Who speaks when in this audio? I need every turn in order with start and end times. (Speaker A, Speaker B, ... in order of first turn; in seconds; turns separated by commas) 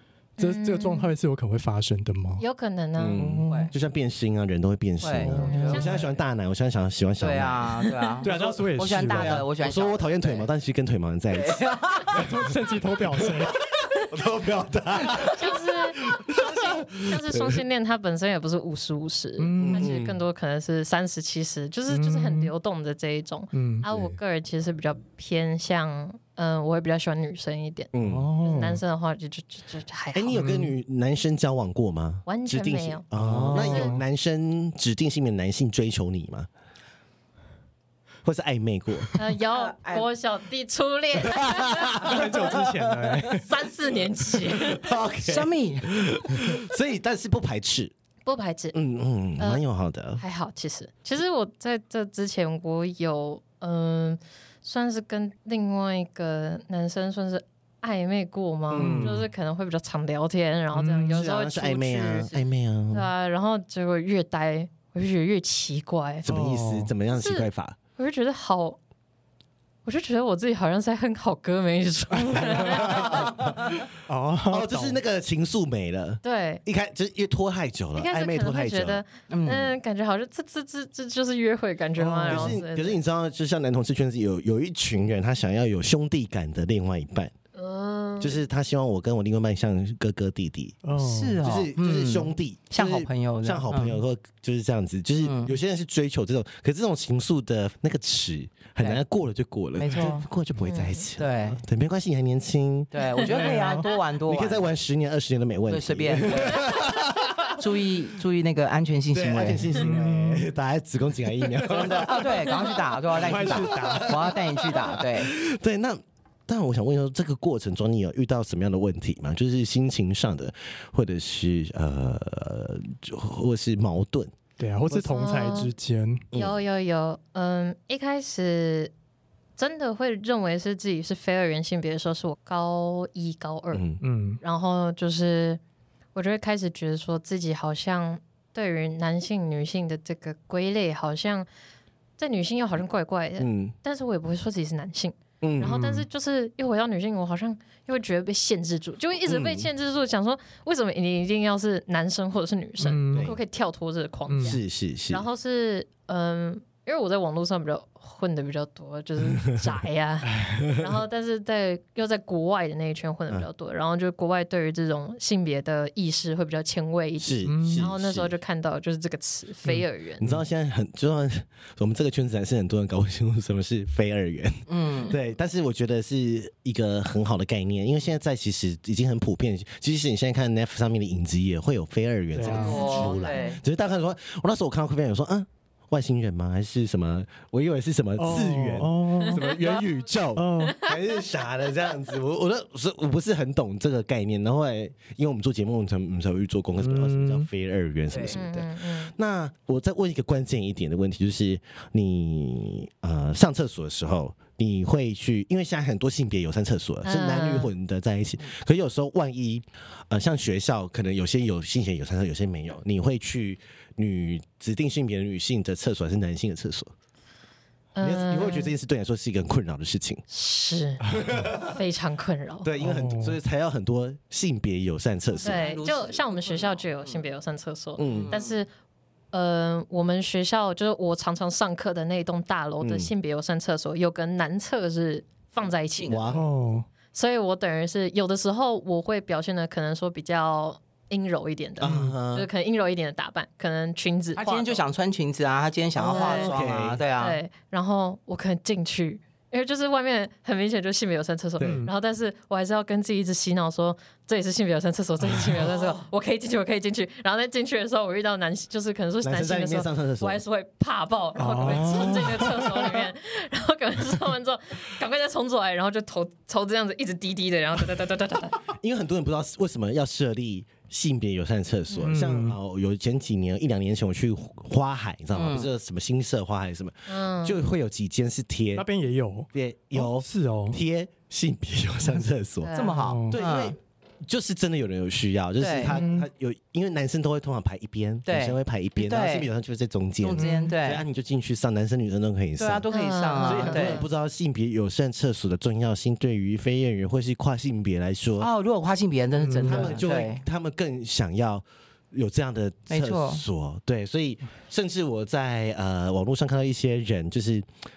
Speaker A: 0.4-2.4, Speaker B: 0.4-1.1, Speaker B: 2.4-3.2, Speaker C: 3.0-12.2, Speaker A: 3.1-3.7, Speaker D: 3.5-3.7, Speaker D: 5.0-6.0, Speaker A: 5.2-5.9, Speaker B: 5.4-6.0, Speaker D: 7.2-10.5, Speaker A: 8.2-9.4, Speaker D: 11.3-12.2, Speaker A: 12.1-13.6, Speaker C: 13.2-17.6, Speaker B: 15.4-27.9, Speaker A: 19.4-19.9, Speaker C: 19.6-20.2, Speaker A: 21.9-22.5, Speaker A: 23.5-23.9, Speaker C: 23.9-24.2, Speaker C: 27.9-28.3, Speaker A: 28.0-28.8, Speaker B: 28.4-30.5, Speaker C: 30.1-36.5, Speaker A: 30.3-30.7, Speaker B: 32.3-33.9, Speaker A: 33.1-34.0, Speaker C: 38.2-39.1, Speaker B: 39.2-42.6, Speaker D: 39.5-40.1, Speaker C: 41.2-42.6, Speaker A: 42.0-43.5, Speaker B: 43.3-45.0, Speaker C: 44.5-47.9, Speaker D: 45.2-45.9, Speaker B: 48.2-48.8, Speaker C: 48.7-50.2, Speaker B: 49.4-49.6, Speaker B: 50.2-62.3, Speaker C: 58.7-59.3, Speaker A: 58.7-59.3, Speaker A: 60.7-61.2, Speaker C: 61.1-63.1, Speaker B: 62.9-66.2, Speaker C: 66.2-67.8, Speaker A: 66.3-66.9, Speaker B: 67.1-68.8, Speaker B: 69.8-73.5, Speaker A: 72.3-72.7, Speaker C: 72.4-73.8, Speaker A: 74.0-75.0, Speaker C: 74.5-79.0, Speaker B: 76.2-76.6, Speaker B: 78.0-83.0, Speaker D: 79.3-79.7, Speaker A: 82.0-82.6, Speaker C: 82.3-87.3, Speaker B: 87.5-88.4, Speaker C: 88.2-90.8, Speaker A: 90.8-91.4, Speaker D: 91.0-94.0, Speaker C: 91.4-102.9, Speaker D: 95.2-95.5, Speaker D: 99.8-100.3, Speaker B: 100.7-101.1, Speaker D: 101.2-101.6, Speaker D: 102.9-104.7, Speaker B: 103.2-103.7, Speaker A: 103.3-103.9, Speaker C: 104.2-107.6, Speaker D: 105.7-106.8, Speaker D: 107.5-109.7, Speaker C: 109.1-124.3, Speaker A: 109.7-110.5, Speaker D: 111.6-115.3, Speaker A: 113.1-114.3, Speaker A: 124.6-126.3, Speaker B: 125.1-125.7, Speaker C: 126.3-126.6, Speaker B: 126.3-128.9, Speaker B: 129.6-133.8, Speaker C: 133.7-134.0, Speaker A: 134.0-134.4, Speaker B: 134.4-135.6, Speaker B: 136.1-141.5, Speaker B: 142.2-170.3, Speaker C: 143.4-143.7, Speaker C: 145.4-145.8, Speaker A: 145.6-146.1, Speaker C: 149.2-149.7, Speaker A: 152.8-153.3, Speaker C: 153.1-153.4, Speaker A: 154.3-154.6, Speaker C: 154.4-155.3, Speaker C: 167.2-168.4, Speaker A: 167.4-167.9, Speaker C: 170.2-216.9, Speaker D: 174.7-175.2, Speaker A: 182.3-182.8, Speaker B: 182.4-183.5, Speaker D: 182.5-183.6, Speaker A: 188.2-189.5, Speaker B: 189.2-189.8, Speaker A: 190.3-190.8, Speaker B: 190.7-190.9, Speaker A: 196.8-197.5, Speaker D: 198.1-198.4, Speaker B: 198.3-199.1, Speaker B: 207.0-207.7, Speaker B: 217.9-218.7, Speaker C: 218.0-220.2, Speaker B: 220.3-222.7, Speaker C: 221.2-221.6, Speaker C: 222.6-225.6, Speaker A: 222.8-223.4, Speaker D: 225.3-227.3, Speaker B: 225.4-228.7, Speaker C: 228.0-228.3, Speaker D: 228.1-228.6, Speaker B: 229.3-236.3, Speaker C: 232.8-233.1, Speaker D: 235.9-236.4, Speaker C: 236.1-236.4, Speaker A: 236.3-236.9, Speaker B: 237.1-244.8, Speaker C: 241.8-242.5, Speaker A: 241.8-242.2, Speaker D: 244.4-247.4, Speaker B: 246.0-246.5, Speaker C: 246.0-247.0, Speaker B: 247.2-268.6, Speaker C: 251.6-251.8, Speaker A: 251.6-251.9, Speaker C: 259.2-260.4, Speaker A: 261.4-262.9, Speaker C: 261.6-262.1, Speaker C: 268.7-278.8, Speaker A: 272.0-272.6, Speaker D: 275.3-275.7, Speaker B: 277.1-277.6, Speaker A: 278.7-280.8, Speaker C: 279.5-282.8, Speaker B: 282.6-283.0, Speaker D: 282.7-283.8, Speaker A: 283.0-283.4, Speaker C: 283.3-292.9, Speaker D: 285.6-286.0, Speaker A: 285.9-286.3, Speaker D: 288.3-289.5, Speaker D: 290.2-291.0, Speaker A: 290.4-290.7, Speaker D: 292.6-294.1, Speaker B: 292.9-294.1, Speaker C: 293.4-298.5, Speaker D: 298.4-300.4, Speaker A: 299.4-299.9, Speaker C: 299.6-307.7, Speaker D: 302.9-303.4